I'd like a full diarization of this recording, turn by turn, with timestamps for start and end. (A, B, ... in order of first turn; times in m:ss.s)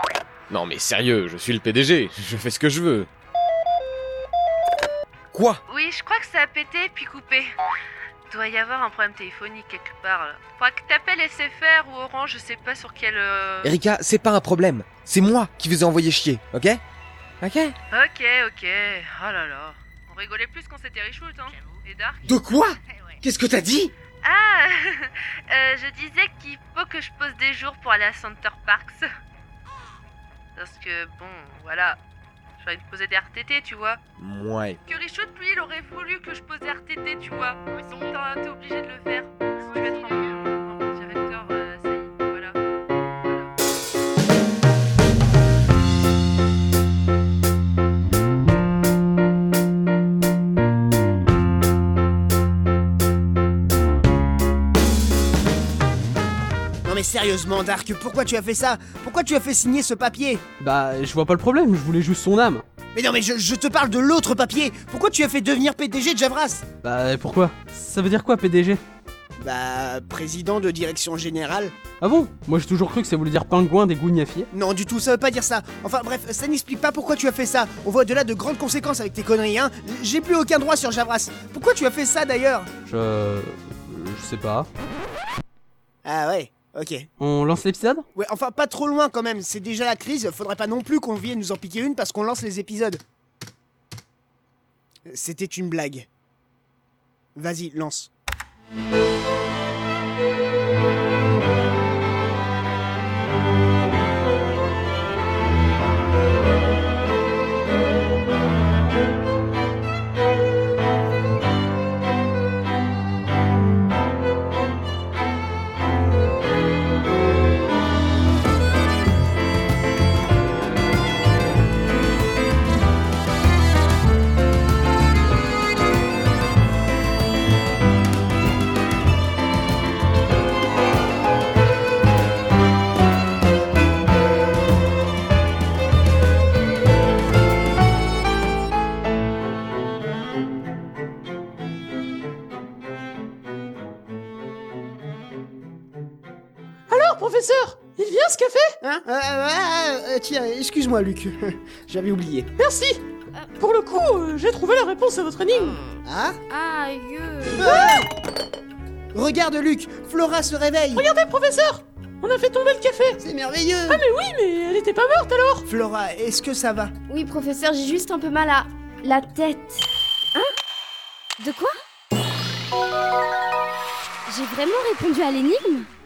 0:00.5-0:03.1 A
0:05.3-0:05.6 A
0:05.7-0:07.5 B
0:08.3-0:13.8 B
0:13.6-0:16.8 A
0:17.4-0:17.8 A
0:17.9-0:22.3 B
0:22.3-0:23.9 A
0:24.2-0:29.1 B
0:30.6-0:32.0 B
0:32.6-0:34.0 B
0:34.2-0:34.8 A
0:34.9-0:42.6 B
0:43.2-0:43.5 B
0:56.8-1:00.4 C
1:00.6-1:02.6 D
1:02.9-1:06.7 C
1:06.8-1:08.8 D
1:09.4-1:11.8 C
1:12.0-1:14.5 D
1:14.5-1:22.7 C
1:22.9-1:24.7 D
1:26.0-1:27.1 C
1:27.2-1:28.0 D
1:28.2-1:33.0 C
1:35.1-1:36.1 C
1:37.4-1:38.1 C
2:26.9-2:28.8 E
2:28.8-2:32.5 C
2:32.6-2:33.0 E
2:33.6-2:35.8 E
2:35.6-2:37.8 F
2:36.0-2:36.4 C
2:37.6-2:38.1 C
2:37.6-2:38.1 E
2:39.1-2:41.0 C
2:41.0-2:43.2 E
2:43.2-2:44.0 C
2:43.9-2:45.7 E
2:45.7-2:46.9 C
2:47.1-2:50.5 F
2:51.4-2:51.8 F
2:54.3-2:55.9 F